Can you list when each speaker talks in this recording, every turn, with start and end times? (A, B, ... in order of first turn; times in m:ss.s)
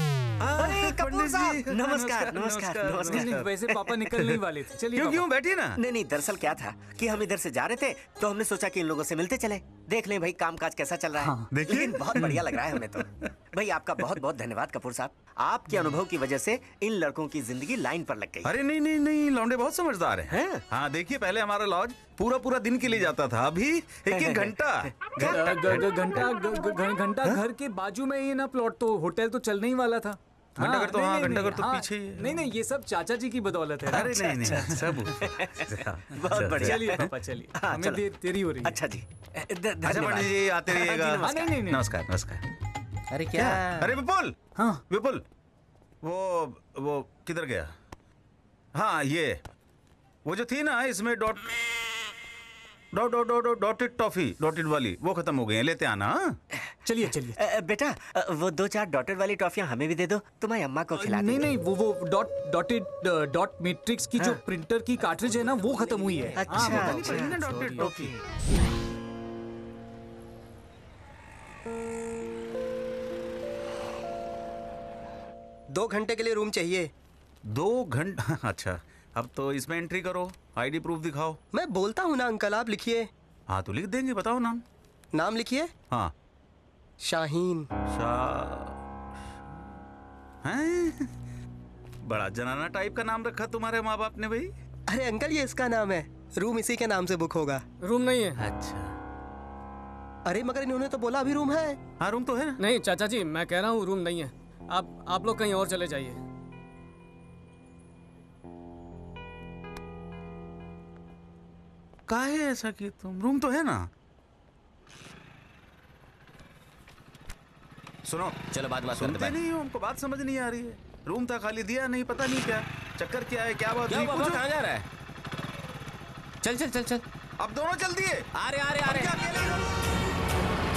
0:00.4-0:03.5 A
0:00.6-0:04.0 B
0:02.2-0:02.5 C
0:02.7-0:05.2 D
0:04.2-0:04.4 A
0:04.9-0:05.8 A
0:05.8-0:18.6 B
0:11.2-0:11.5 D
0:11.5-0:12.2 A
0:18.4-0:26.3 A
0:20.3-0:20.6 B
0:24.1-0:25.4 B
0:25.2-0:34.2 D
0:30.6-0:32.4 A
0:33.9-0:36.8 A
0:33.9-0:41.6 B
0:36.3-0:38.8 D
0:39.8-0:42.4 A
0:41.2-0:41.8 D
0:43.1-0:44.0 E
0:43.3-0:45.2 A
0:44.5-0:44.8 D
0:46.0-0:47.7 A
0:48.8-0:49.4 A
0:50.2-0:51.5 A
0:52.9-0:56.3 A
0:56.8-0:57.4 D
0:57.4-1:01.5 B
1:01.0-1:07.1 D
1:05.6-1:08.2 B
1:06.8-1:08.2 A
1:07.0-1:07.9 C
1:15.7-1:16.9 F
1:17.5-1:21.4 A
1:21.5-1:23.1 F
1:23.5-1:24.6 A
1:25.1-1:25.7 F
1:27.0-1:27.6 F
1:27.9-1:28.8 A
1:30.4-1:31.1 A
1:32.1-1:34.5 A
1:34.9-1:37.6 F
1:37.8-1:38.4 C
1:38.4-1:38.9 A
1:40.2-1:41.8 F
1:42.0-1:42.6 A
1:42.6-1:46.2 C
1:52.1-1:53.9 A
1:58.0-1:58.4 A
1:58.5-1:59.4 E
1:58.9-2:04.4 A
2:03.9-2:04.9 E
2:06.4-2:07.0 E
2:07.4-2:08.2 A
2:08.4-2:09.2 E
2:08.8-2:09.6 A